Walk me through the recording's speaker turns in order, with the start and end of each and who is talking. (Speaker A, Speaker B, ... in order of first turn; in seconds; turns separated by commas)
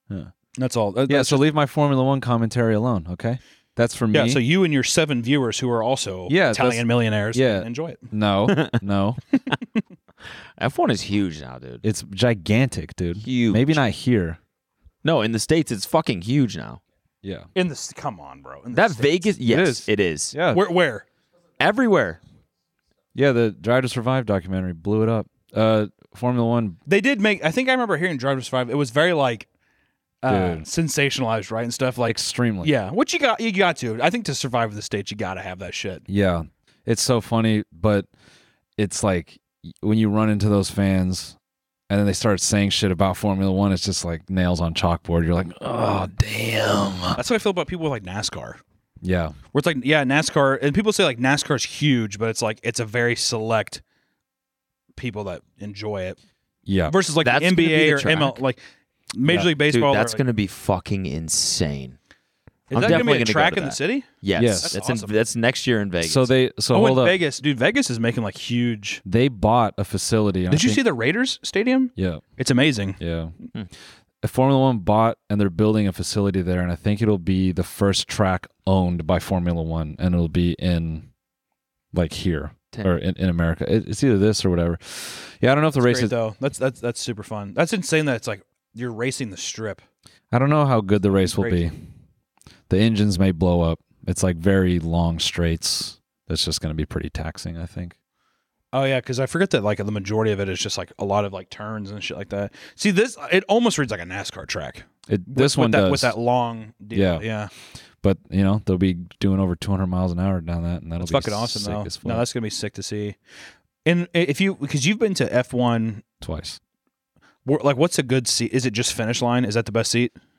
Speaker A: 0.6-1.5, Speaker B: 1.1-4.4, Speaker A: 4.1-8.0, Speaker B: 6.3-9.2, Speaker C: 8.5-8.8, Speaker C: 10.6-11.8, Speaker B: 11.8-14.4, Speaker C: 13.2-13.8, Speaker C: 15.0-16.8, Speaker B: 17.2-17.5, Speaker A: 17.6-19.3, Speaker C: 18.7-20.4, Speaker B: 19.5-20.6, Speaker A: 20.5-21.1, Speaker C: 21.6-22.2, Speaker B: 23.1-26.8, Speaker A: 26.9-29.5, Speaker A: 30.2-36.0, Speaker B: 30.3-30.7, Speaker B: 32.1-32.7, Speaker B: 36.1-38.1, Speaker B: 38.8-41.4, Speaker B: 41.9-47.2, Speaker A: 47.1-48.6, Speaker B: 49.0-49.4, Speaker A: 49.5-53.8, Speaker A: 55.0-56.2, Speaker B: 56.7-57.0, Speaker A: 56.9-58.6, Speaker C: 57.2-58.4, Speaker A: 59.1-60.2, Speaker C: 59.3-62.0, Speaker A: 62.7-65.2, Speaker B: 62.7-63.1, Speaker C: 62.8-66.3, Speaker B: 64.3-64.8, Speaker B: 66.0-67.2, Speaker A: 66.7-69.0, Speaker B: 69.1-70.8, Speaker A: 70.5-73.0, Speaker B: 72.0-72.2, Speaker B: 73.0-73.3, Speaker B: 74.2-81.1, Speaker B: 81.9-86.1, Speaker A: 85.8-89.8, Speaker B: 90.3-91.8, Speaker A: 91.1-91.7, Speaker B: 92.7-98.0, Speaker A: 98.7-107.5, Speaker B: 105.1-106.2, Speaker B: 106.9-107.3, Speaker B: 108.0-112.3, Speaker A: 111.0-113.2, Speaker A: 113.8-116.0, Speaker B: 116.2-116.6, Speaker A: 117.5-120.1